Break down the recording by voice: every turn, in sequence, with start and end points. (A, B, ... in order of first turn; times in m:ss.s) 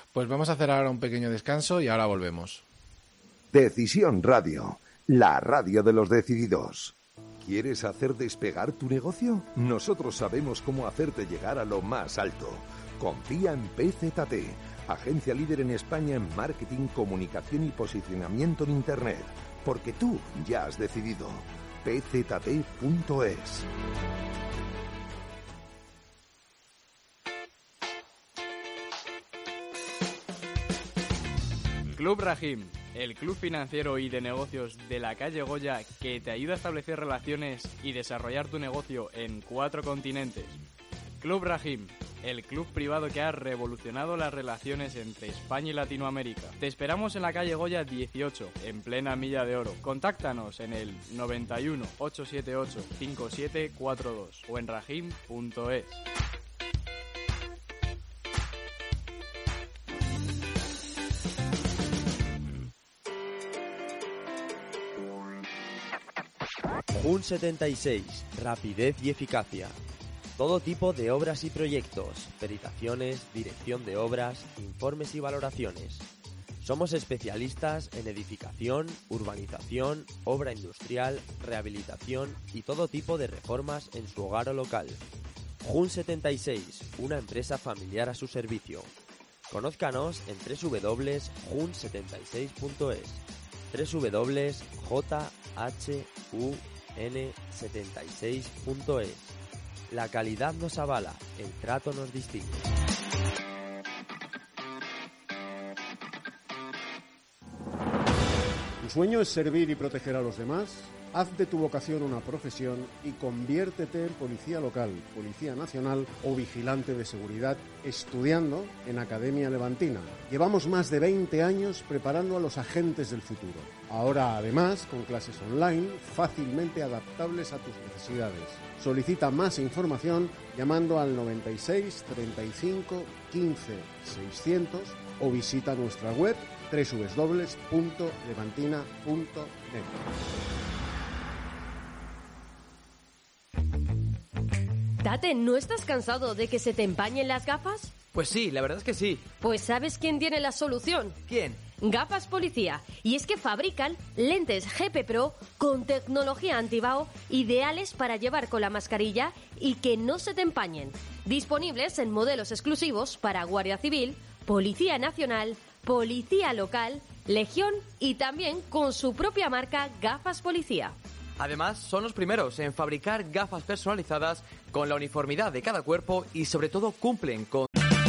0:00.1-0:02.6 A
0:03.5-0:23.7 B
0:31.9-0:40.6 C
0:41.2-0:56.0 C
1:06.9-1:09.8 D
1:10.4-1:16.1 D
1:16.6-1:25.0 D
1:25.6-1:28.9 D
1:29.5-1:39.4 D
1:39.9-1:42.6 D
1:48.8-2:20.0 E
2:25.0-2:28.0 F
2:28.1-2:29.3 G
2:29.3-2:31.2 F
2:31.3-2:31.6 G
2:31.7-2:51.0 F
2:51.4-2:57.6 G